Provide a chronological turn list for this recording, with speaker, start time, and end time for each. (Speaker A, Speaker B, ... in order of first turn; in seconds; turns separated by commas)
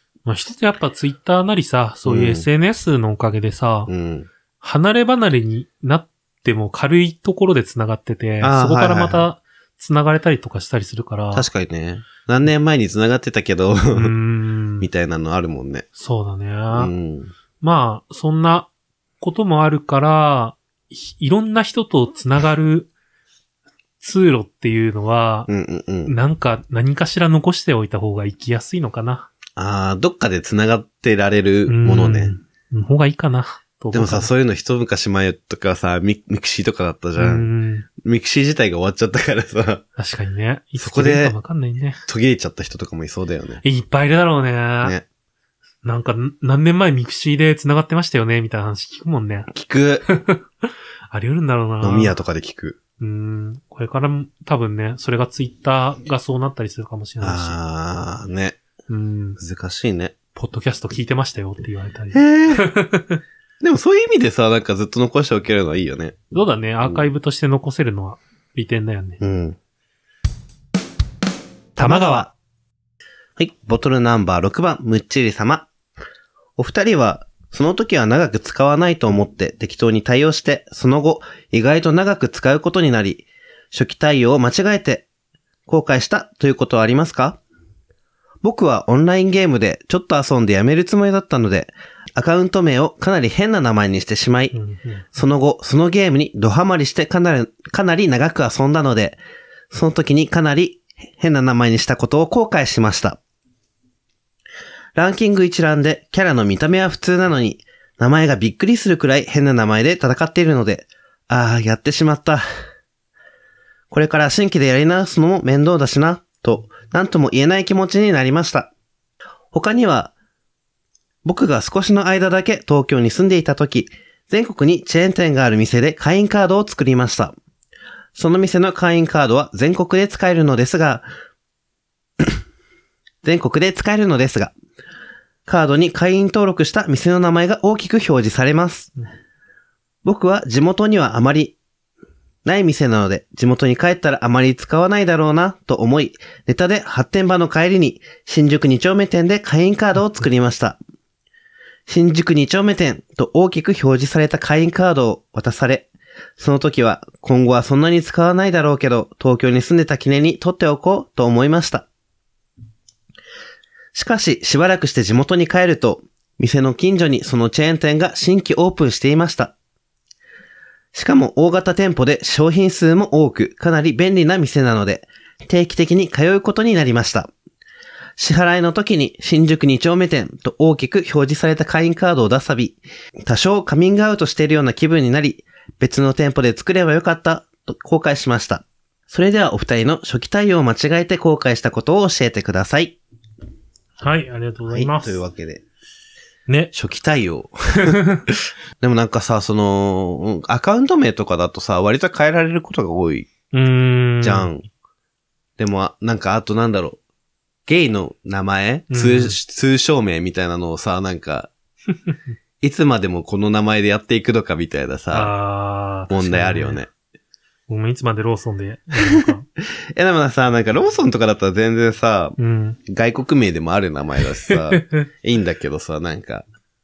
Speaker A: 0.3-3.9, Speaker B: 2.0-2.5, Speaker B: 3.9-4.3, Speaker A: 4.6-11.5, Speaker B: 8.4-9.3, Speaker B: 11.3-14.1, Speaker A: 13.9-14.9, Speaker B: 14.8-15.9, Speaker A: 16.0-16.9, Speaker B: 16.7-17.3, Speaker A: 17.6-18.7, Speaker A: 19.2-22.9, Speaker A: 24.0-25.5, Speaker B: 25.5-26.1, Speaker A: 26.1-29.3, Speaker B: 29.6-32.4, Speaker A: 31.7-34.3, Speaker B: 33.9-39.8, Speaker A: 37.2-37.9, Speaker A: 40.0-42.0, Speaker B: 40.8-41.4, Speaker B: 42.1-43.6, Speaker A: 43.6-45.0, Speaker A: 45.8-49.5, Speaker B: 49.5-50.1, Speaker A: 50.1-50.4, Speaker A: 51.1-52.2, Speaker B: 51.8-52.8, Speaker A: 53.0-57.6, Speaker B: 57.2-58.6, Speaker A: 58.9-59.4, Speaker B: 59.4-60.2, Speaker A: 60.4-63.2, Speaker B: 62.1-62.7, Speaker B: 63.6-66.2, Speaker A: 66.3-69.2, Speaker B: 69.2-69.6, Speaker B: 71.8-72.3, Speaker A: 71.8-72.3, Speaker B: 73.4-75.7, Speaker B: 76.6-85.1, Speaker B: 85.7-87.4, Speaker B: 88.4-94.5, Speaker A: 94.5-95.0, Speaker B: 95.1-99.2, Speaker B: 99.7-103.2, Speaker B: 105.0-112.4, Speaker B: 113.9-118.7, Speaker B: 119.5-120.1, Speaker B: 121.2-127.4, Speaker B: 128.2-131.1, Speaker B: 133.2-134.5, Speaker B: 135.5-138.9, Speaker B: 140.0-141.6, Speaker B: 142.4-150.8, Speaker B: 151.9-161.9, Speaker B: 163.9-169.5, Speaker B: 170.9-177.3, Speaker B: 178.2-193.0, Speaker A: 194.0-195.2, Speaker B: 194.7-195.6, Speaker A: 196.5-196.7, Speaker B: 196.7-203.3, Speaker A: 197.8-198.2, Speaker A: 203.5-204.5, Speaker B: 204.2-204.7, Speaker B: 205.6-207.0, Speaker B: 207.7-211.5, Speaker A: 208.9-209.4, Speaker B: 212.6-215.3, Speaker A: 215.1-216.8, Speaker B: 216.1-216.9, Speaker A: 217.7-219.5, Speaker B: 219.0-219.3, Speaker B: 219.9-222.4, Speaker A: 222.4-222.8, Speaker B: 222.9-226.4, Speaker A: 224.5-225.1